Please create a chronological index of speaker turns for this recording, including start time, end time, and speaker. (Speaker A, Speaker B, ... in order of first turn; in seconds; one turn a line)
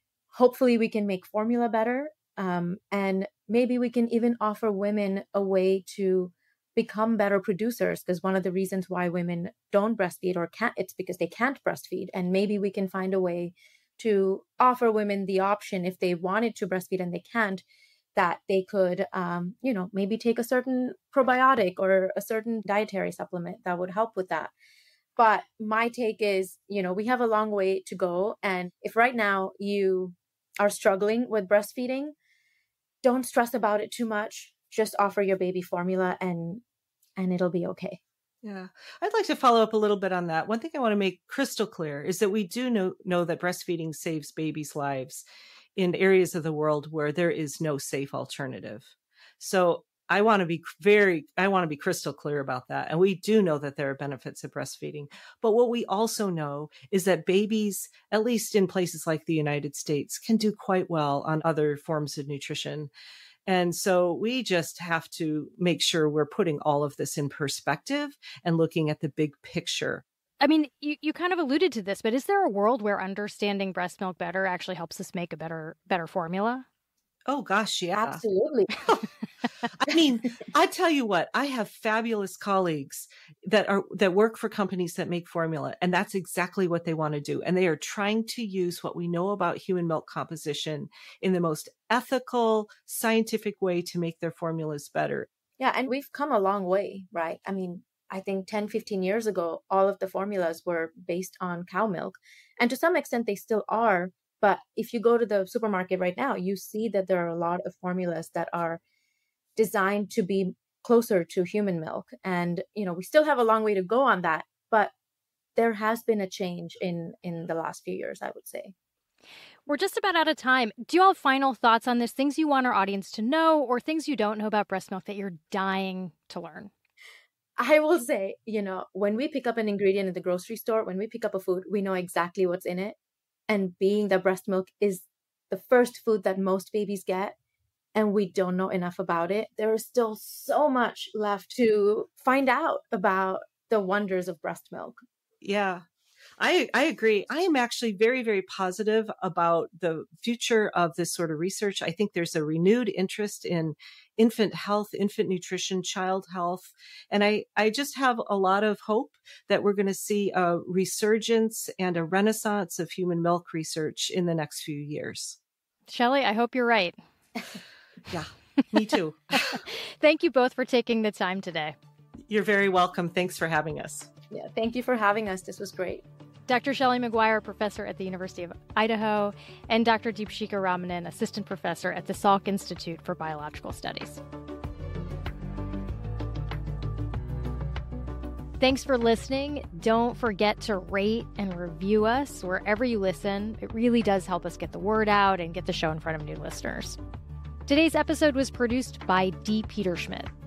Speaker A: 0.3-17.6
Speaker A: 18.2-24.5
Speaker A: 25.2-32.1
Speaker A: 33.0-36.6
Speaker A: 37.2-38.0
Speaker B: 38.4-62.9
Speaker B: 63.5-70.0
Speaker C: 70.4-76.7
Speaker B: 77.3-78.2
Speaker A: 78.0-78.7
Speaker B: 79.8-95.3
Speaker A: 95.6-108.8
Speaker A: 109.6-114.9
Speaker A: 115.6-118.7
Speaker C: 119.7-126.7
Speaker A: 127.6-133.0
Speaker A: 133.5-137.4
Speaker A: 137.9-145.0
Speaker B: 145.4-145.8
Speaker B: 146.4-165.4
Speaker C: 165.9-167.0
Speaker B: 168.1-169.6
Speaker C: 169.5-171.8
Speaker B: 172.3-174.1
Speaker A: 174.3-176.0
Speaker C: 176.5-184.2
Speaker C: 188.6-197.0
Speaker C: 197.7-200.3